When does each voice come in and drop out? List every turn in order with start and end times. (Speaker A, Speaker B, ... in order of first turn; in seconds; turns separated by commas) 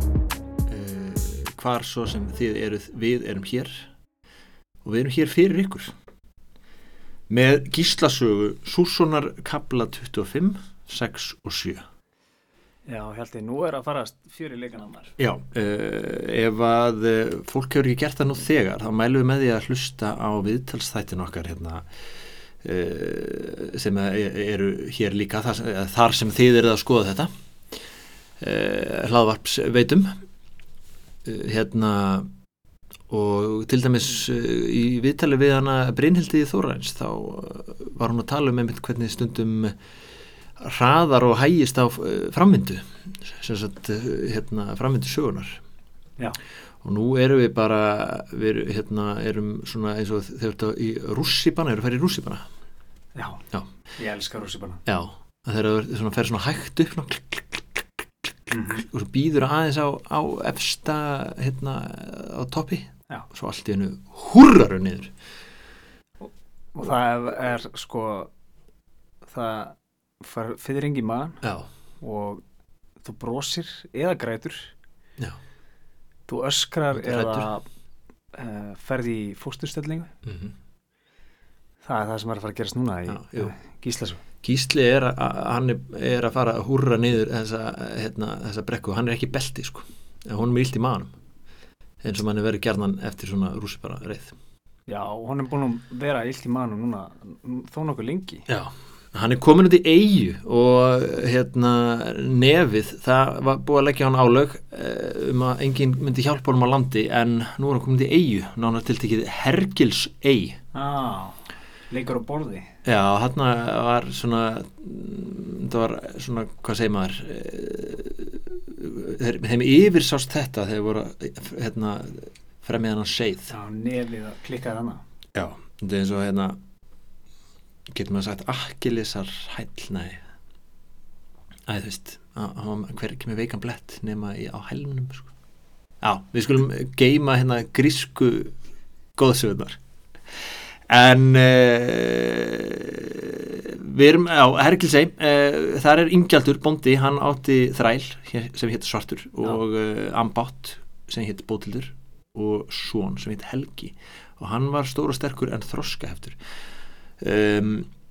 Speaker A: 0.7-3.9, Speaker A: 4.8-6.0, Speaker A: 7.3-11.9, Speaker B: 12.9-15.2, Speaker A: 15.2-21.9, Speaker A: 22.6-27.8, Speaker A: 28.4-30.2, Speaker A: 31.2-32.3, Speaker A: 33.1-39.8, Speaker A: 40.6-45.6, Speaker A: 46.8-52.5, Speaker B: 53.2-53.4, Speaker B: 54.0-54.8, Speaker A: 54.9-65.1, Speaker B: 58.5-58.9, Speaker B: 66.2-68.3, Speaker B: 69.3-71.4, Speaker A: 71.4-71.7, Speaker B: 72.0-72.4, Speaker B: 73.0-74.7, Speaker B: 76.3-77.6, Speaker A: 76.9-77.5, Speaker B: 78.3-80.1, Speaker A: 80.2-80.5, Speaker B: 81.8-84.2, Speaker A: 83.1-83.5, Speaker A: 84.4-91.1, Speaker A: 92.0-94.3, Speaker B: 94.9-98.5, Speaker A: 98.5-110.6, Speaker B: 110.7-112.7, Speaker A: 112.8-123.5, Speaker B: 123.5-125.0, Speaker A: 125.3-126.6, Speaker A: 127.9-130.2, Speaker A: 131.7-135.3, Speaker A: 136.0-138.6, Speaker A: 139.2-139.8, Speaker A: 140.4-156.4, Speaker A: 157.2-157.9